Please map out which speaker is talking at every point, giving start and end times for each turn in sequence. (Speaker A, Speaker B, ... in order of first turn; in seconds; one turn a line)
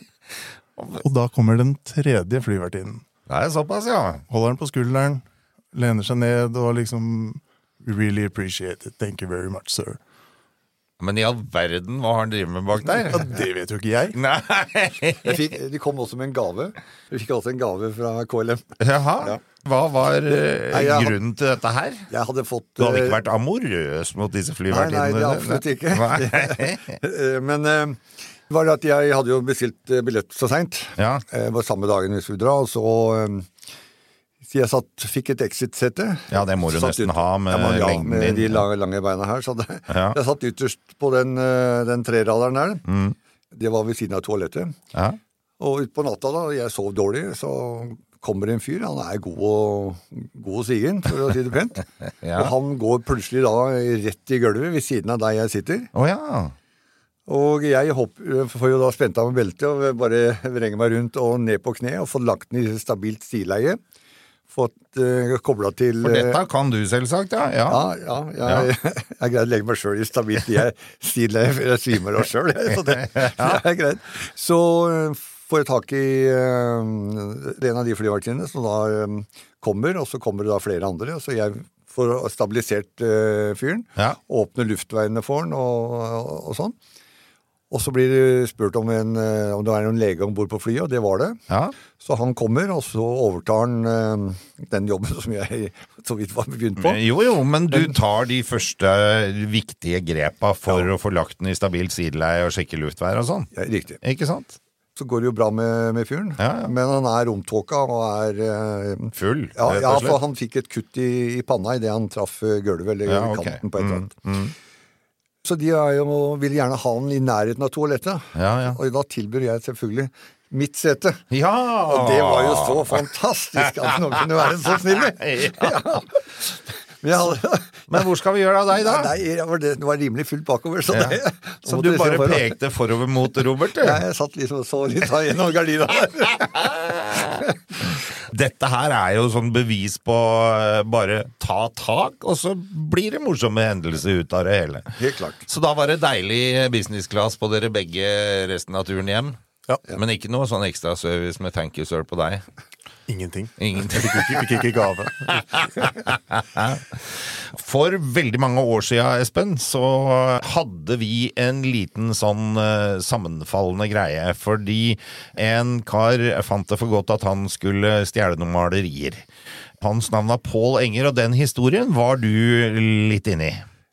Speaker A: 1.0-3.0
Speaker B: 3.3-4.2
Speaker A: 4.3-10.0
Speaker B: 11.0-13.3
Speaker A: 13.0-14.2
Speaker B: 14.1-15.4
Speaker C: 15.2-18.7
Speaker B: 18.8-22.1
Speaker C: 20.3-21.1
Speaker C: 22.1-23.2
Speaker B: 22.8-26.9
Speaker C: 24.7-33.5
Speaker B: 31.0-31.2
Speaker C: 34.4-42.8
Speaker B: 36.3-38.6
Speaker B: 39.9-40.2
Speaker B: 42.9-43.1
Speaker C: 43.5-44.8
Speaker B: 44.9-45.2
Speaker C: 45.6-51.8
Speaker B: 52.2-52.5
Speaker C: 52.4-55.9
Speaker B: 55.9-56.5
Speaker C: 57.3-63.8
Speaker C: 64.5-66.4
Speaker B: 66.0-67.8
Speaker C: 67.7-86.7
Speaker B: 68.4-68.7
Speaker B: 72.9-73.6
Speaker C: 87.7-91.4
Speaker C: 92.0-97.0
Speaker B: 96.8-103.5
Speaker C: 97.7-98.0
Speaker C: 103.5-104.0
Speaker B: 104.0-104.6
Speaker C: 105.0-114.1
Speaker B: 106.4-106.7
Speaker B: 109.2-110.2
Speaker B: 113.0-114.5
Speaker C: 115.4-121.2
Speaker B: 118.3-118.8
Speaker B: 121.3-123.0
Speaker C: 121.9-126.4
Speaker B: 124.9-125.7
Speaker C: 127.0-127.9
Speaker B: 127.9-129.1
Speaker C: 128.8-132.5
Speaker B: 130.9-134.0
Speaker C: 133.8-137.4
Speaker B: 136.5-137.4
Speaker B: 138.3-144.9
Speaker C: 145.0-145.4
Speaker B: 145.5-149.4
Speaker B: 149.9-152.4
Speaker A: 153.1-155.7
Speaker B: 153.6-154.4
Speaker B: 155.3-169.2
Speaker B: 169.8-173.6